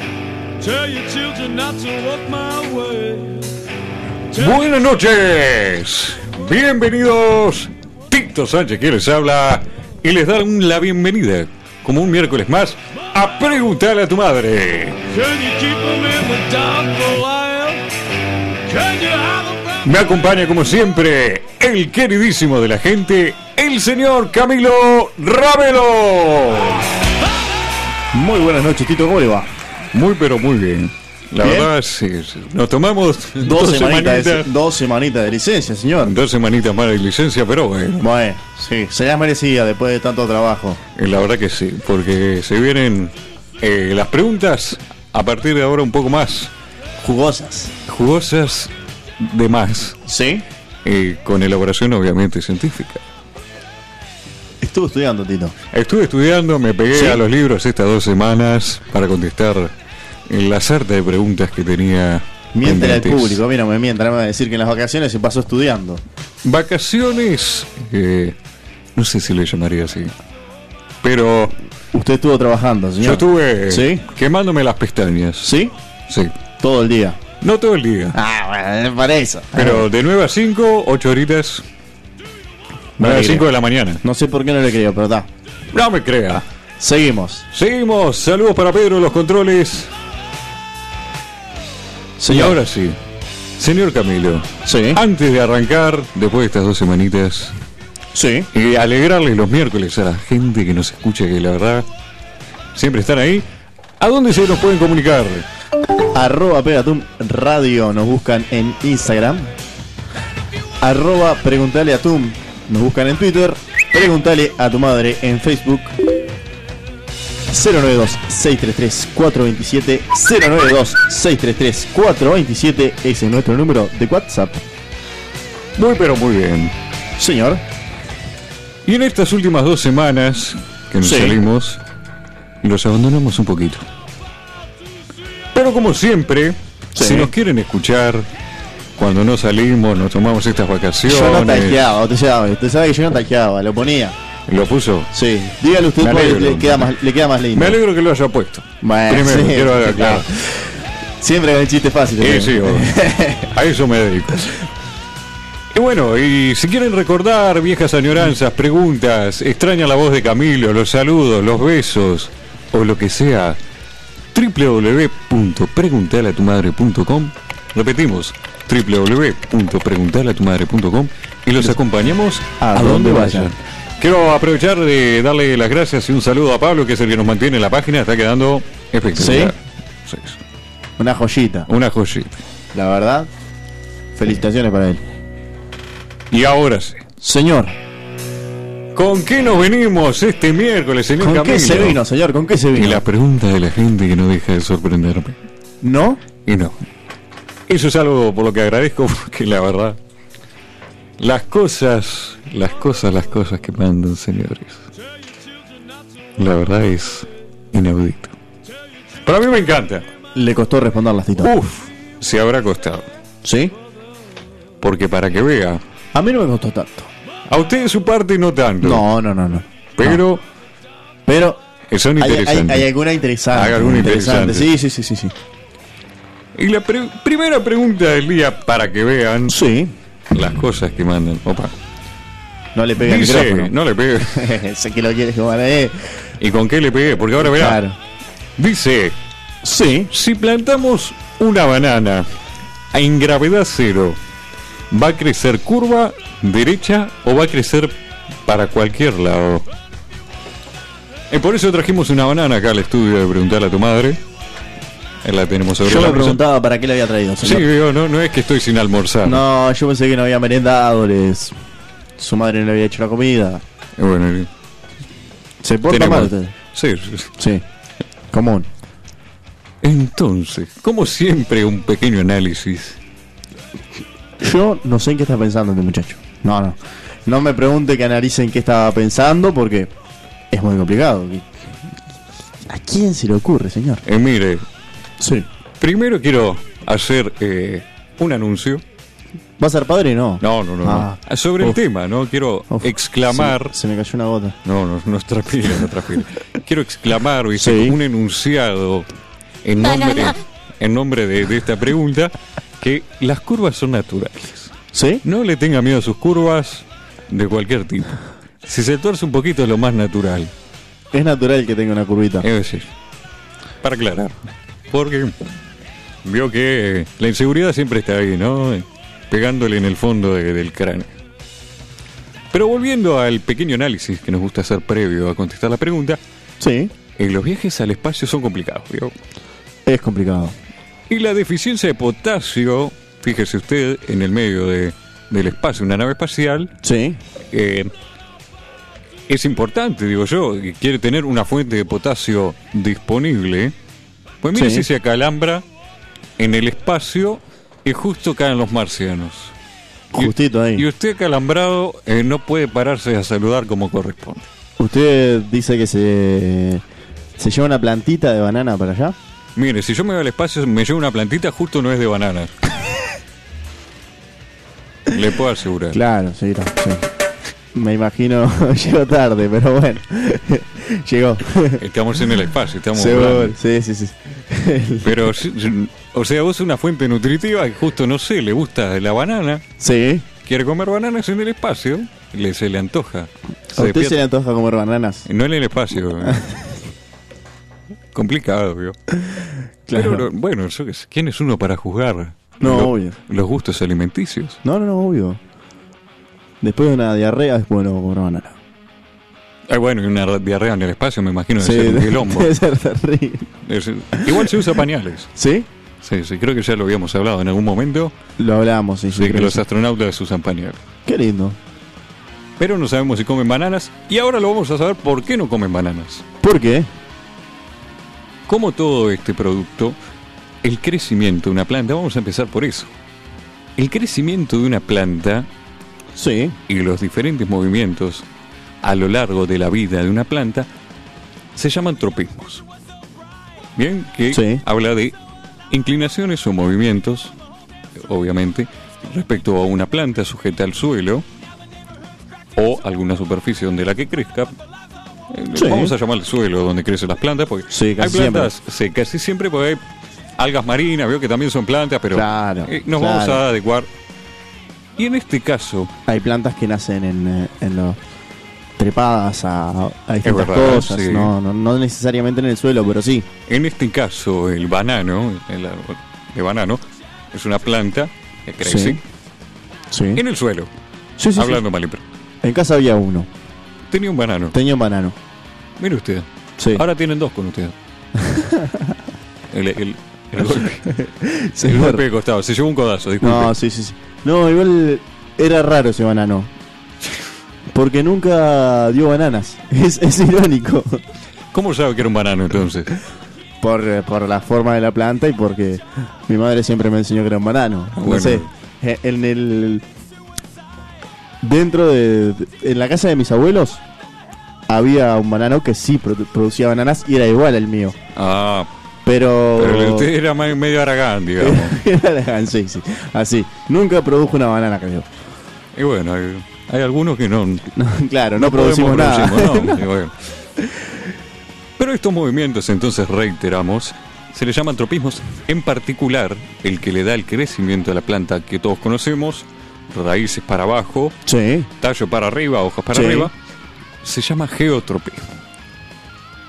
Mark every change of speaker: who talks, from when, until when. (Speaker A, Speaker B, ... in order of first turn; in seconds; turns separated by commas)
Speaker A: 0.6-3.5, Speaker A: 4.3-4.6, Speaker B: 4.3-15.0, Speaker A: 15.1-17.8, Speaker A: 18.6-19.8, Speaker B: 19.8-26.8, Speaker C: 28.1-29.5, Speaker B: 29.9-34.5, Speaker C: 31.4-31.7, Speaker C: 33.4-36.2, Speaker B: 36.0-38.1, Speaker C: 38.0-40.8, Speaker B: 41.0-46.5, Speaker C: 47.0-47.7, Speaker B: 47.9-50.0, Speaker C: 50.0-50.5, Speaker B: 50.8-53.0, Speaker C: 54.6-55.5, Speaker B: 55.7-59.7, Speaker C: 56.9-57.2, Speaker B: 60.3-63.4, Speaker C: 62.5-66.0, Speaker B: 66.4-68.4, Speaker B: 69.0-70.1, Speaker B: 71.0-71.5, Speaker C: 71.9-74.1, Speaker B: 73.0-75.5, Speaker C: 75.4-75.7, Speaker B: 76.1-76.3, Speaker C: 76.6-77.2, Speaker B: 77.4-78.2, Speaker C: 78.1-79.9, Speaker B: 79.5-81.6, Speaker C: 83.0-83.5, Speaker B: 83.0-84.0, Speaker C: 84.0-85.3, Speaker B: 85.7-86.4, Speaker C: 86.8-87.5, Speaker B: 87.5-89.9, Speaker C: 92.2-92.6, Speaker B: 92.3-93.0, Speaker B: 93.6-97.5, Speaker C: 94.6-95.0, Speaker C: 98.1-98.5, Speaker B: 98.5-101.9, Speaker B: 102.7-103.5, Speaker B: 104.0-105.5, Speaker C: 106.1-109.5, Speaker C: 110.8-116.0, Speaker C: 117.5-124.6, Speaker B: 125.8-126.7, Speaker C: 127.2-127.6, Speaker B: 128.8-131.8, Speaker C: 131.0-131.4, Speaker B: 132.6-133.8, Speaker B: 135.5-138.3, Speaker C: 136.9-137.3, Speaker B: 139.0-141.8, Speaker C: 141.1-144.2, Speaker B: 144.5-145.1, Speaker C: 145.1-147.8, Speaker B: 146.0-146.9, Speaker B: 147.5-150.3, Speaker C: 148.8-153.5, Speaker B: 152.2-154.6, Speaker B: 155.7-163.6, Speaker B: 164.3-180.4, Speaker C: 172.6-173.5, Speaker C: 179.1-179.5, Speaker C: 181.0-181.7, Speaker B: 181.7-182.4, Speaker C: 182.7-183.3, Speaker C: 184.2-185.0, Speaker B: 186.3-187.0, Speaker C: 187.2-187.8, Speaker B: 188.9-192.0, Speaker C: 191.2-193.0, Speaker B: 192.7-195.3, Speaker C: 195.8-196.2, Speaker B: 196.4-196.8, Speaker B: 197.7-200.0, Speaker B: 201.2-204.9, Speaker B: 206.4-208.3, Speaker B: 209.2-210.1, Speaker C: 210.3-211.5, Speaker B: 211.4-213.1, Speaker C: 213.4-213.7, Speaker B: 214.8-215.8, Speaker C: 216.1-217.1, Speaker B: 217.5-219.0, Speaker C: 218.8-220.2, Speaker B: 220.0-220.4, Speaker C: 221.2-221.6, Speaker B: 221.9-222.9, Speaker C: 222.2-225.3, Speaker B: 223.5-224.7, Speaker B: 226.5-229.6, Speaker C: 229.5-229.9, Speaker B: 230.3-231.7, Speaker C: 232.7-233.7, Speaker B: 233.0-234.5, Speaker C: 234.3-236.2, Speaker B: 236.4-237.8, Speaker C: 237.4-238.0, Speaker B: 238.6-239.2, Speaker C: 239.6-240.1, Speaker B: 240.1-242.2, Speaker B: 242.9-244.2, Speaker B: 244.9-249.7, Speaker B: 251.3-254.2, Speaker B: 255.2-256.4, Speaker C: 255.8-257.7, Speaker B: 257.4-259.4, Speaker C: 259.2-261.6, Speaker C: 262.2-263.6, Speaker B: 264.0-264.5, Speaker C: 265.6-266.5, Speaker B: 265.9-267.3, Speaker C: 267.4-267.6, Speaker C: 268.3-268.7, Speaker B: 269.8-273.0, Speaker C: 274.4-279.9, Speaker C: 280.5-281.5, Speaker C: 282.6-284.0, Speaker B: 284.0-284.6, Speaker C: 285.2-285.5, Speaker B: 285.8-288.8, Speaker C: 289.6-291.8, Speaker B: 290.4-293.7, Speaker C: 292.7-294.6, Speaker B: 294.6-299.1, Speaker C: 297.5-298.0, Speaker B: 299.6-310.5, Speaker C: 304.9-305.2, Speaker C: 311.1-312.5, Speaker B: 312.4-312.9, Speaker B: 313.8-315.3, Speaker B: 316.2-321.1, Speaker B: 322.5-326.2, Speaker C: 326.6-326.9, Speaker B: 327.1-329.1, Speaker C: 329.9-330.6, Speaker B: 331.1-336.7, Speaker C: 336.8-337.2, Speaker B: 337.5-337.9, Speaker B: 339.3-343.7, Speaker B: 344.4-345.6, Speaker C: 344.5-344.9, Speaker B: 346.4-349.5, Speaker C: 350.1-350.9, Speaker B: 350.2-354.5, Speaker C: 354.8-356.8, Speaker C: 357.4-359.1, Speaker B: 359.6-362.5, Speaker B: 365.1-366.0, Speaker C: 365.9-367.1, Speaker C: 367.7-371.8, Speaker B: 371.8-373.6, Speaker C: 372.9-375.3, Speaker B: 375.0-379.6, Speaker C: 379.8-380.3, Speaker B: 380.4-384.2, Speaker C: 383.7-385.2, Speaker B: 385.2-386.4, Speaker C: 386.2-386.7, Speaker B: 388.1-388.9, Speaker C: 389.2-390.3, Speaker B: 389.9-394.6, Speaker C: 392.6-393.1, Speaker C: 394.6-395.4, Speaker C: 396.6-398.6, Speaker B: 399.7-402.5, Speaker C: 401.6-403.5, Speaker B: 403.6-405.3, Speaker C: 404.1-404.6, Speaker C: 405.3-405.7, Speaker B: 406.0-408.1, Speaker C: 408.4-409.6, Speaker B: 409.1-410.8, Speaker C: 411.1-411.6, Speaker B: 412.6-416.2, Speaker C: 416.4-416.9, Speaker B: 418.5-420.0, Speaker B: 420.6-422.9, Speaker B: 423.8-425.5, Speaker C: 426.1-426.6, Speaker B: 426.7-428.2, Speaker B: 428.8-430.7, Speaker B: 431.5-432.6, Speaker B: 433.8-435.1, Speaker C: 434.3-434.6, Speaker B: 435.7-437.3, Speaker B: 438.0-441.2, Speaker B: 442.6-444.5, Speaker B: 445.3-449.8, Speaker C: 445.5-445.9, Speaker C: 447.7-448.5, Speaker B: 450.4-453.9, Speaker C: 452.1-453.4, Speaker B: 455.0-455.9, Speaker C: 456.1-458.0, Speaker C: 458.8-463.3, Speaker B: 460.2-461.3, Speaker B: 463.5-469.0, Speaker C: 468.6-469.0, Speaker C: 469.9-470.2, Speaker B: 470.1-470.7, Speaker C: 471.2-471.6, Speaker B: 471.3-472.0, Speaker C: 472.4-473.3, Speaker B: 473.9-474.6, Speaker C: 474.5-475.2, Speaker B: 475.8-477.7, Speaker C: 476.6-476.8, Speaker C: 478.1-478.9, Speaker B: 479.5-480.9, Speaker C: 480.4-482.0, Speaker B: 481.6-483.6, Speaker C: 483.2-486.5, Speaker C: 487.7-491.0, Speaker B: 491.5-492.9, Speaker C: 493.6-499.8, Speaker B: 497.9-498.5, Speaker C: 501.4-503.8, Speaker C: 504.7-508.0, Speaker B: 508.1-508.7, Speaker C: 509.1-510.1, Speaker B: 509.6-511.8, Speaker C: 511.4-515.0, Speaker B: 515.7-517.7, Speaker C: 517.7-519.8, Speaker B: 518.4-520.3, Speaker B: 521.8-531.2, Speaker C: 531.2-531.7, Speaker B: 531.8-533.3, Speaker C: 532.9-533.3, Speaker B: 534.0-535.2